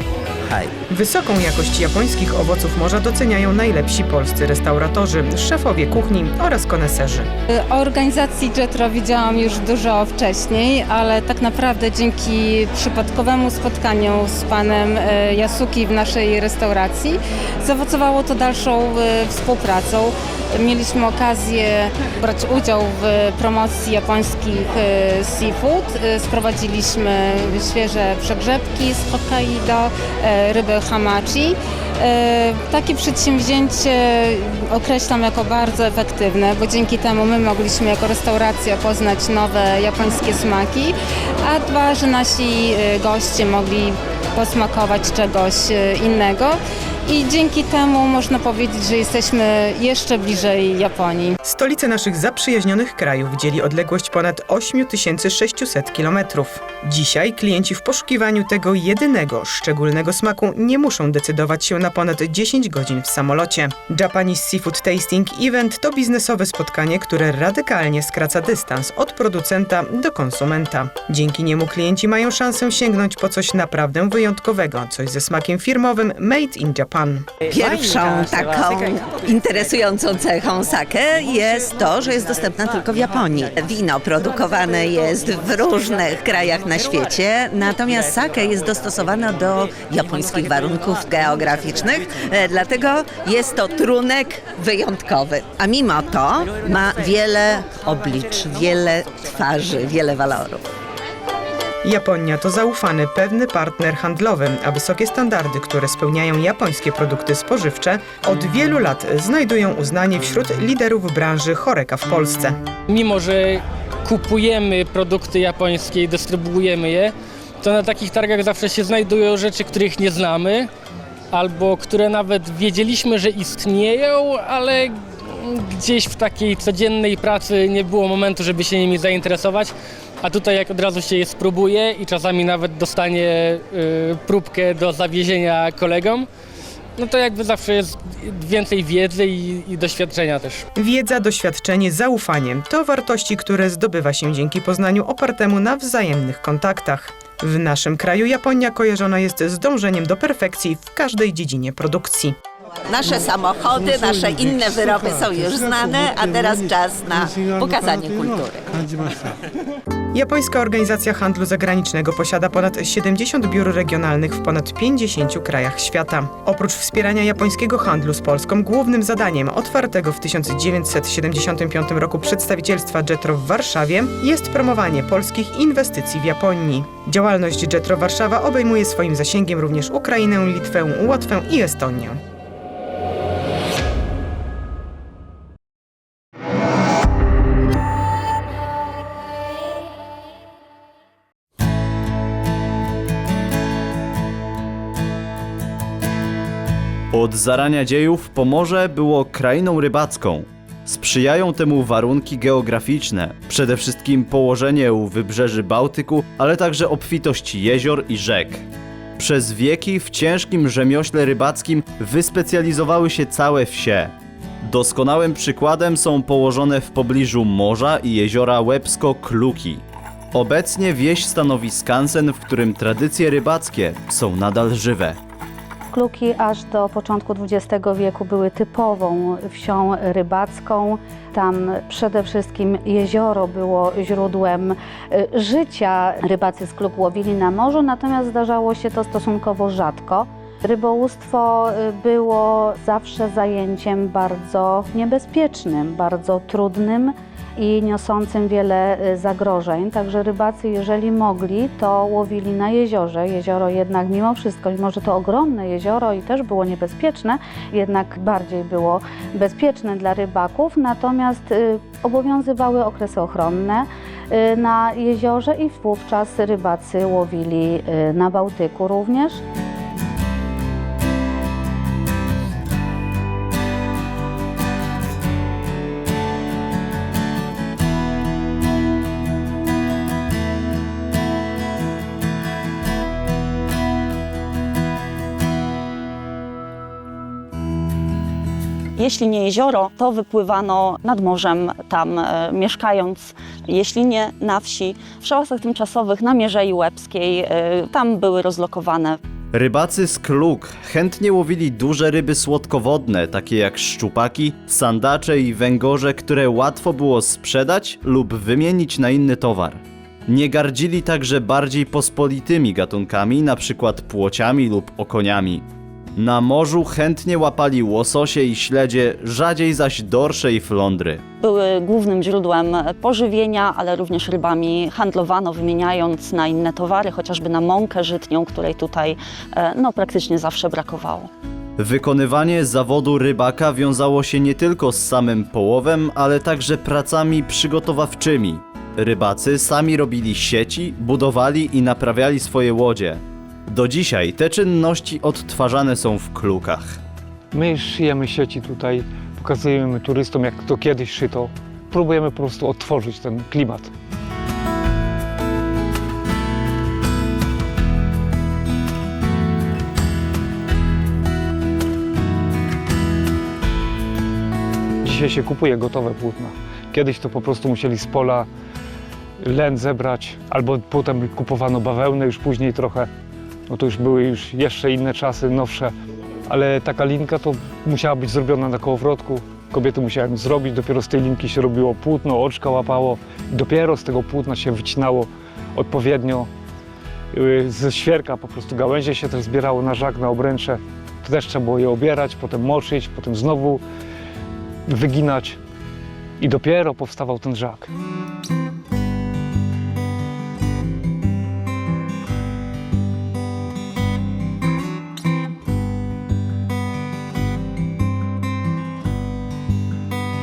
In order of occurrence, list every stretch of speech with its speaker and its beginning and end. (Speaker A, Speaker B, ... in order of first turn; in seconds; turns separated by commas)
Speaker A: 0.9-7.3, Speaker B: 7.5-51.4, Speaker A: 51.4-77.3, Speaker C: 77.5-100.6, Speaker A: 101.8-112.6, Speaker D: 112.9-120.7, Speaker D: 121.3-136.3, Speaker D: 137.0-140.7, Speaker A: 140.8-152.4, Speaker C: 152.9-158.7, Speaker A: 160.1-182.2, Speaker E: 197.1-208.7, Speaker E: 209.2-225.2, Speaker F: 225.9-269.4, Speaker G: 289.0-299.2, Speaker E: 299.5-315.6, Speaker E: 316.2-321.2, Speaker G: 321.4-331.3, Speaker E: 331.8-347.0, Speaker H: 347.5-353.9, Speaker H: 365.0-368.5, Speaker H: 369.4-373.1, Speaker H: 373.7-375.9, Speaker H: 376.5-386.5, Speaker H: 387.3-393.8, Speaker H: 394.9-395.6, Speaker H: 396.4-397.9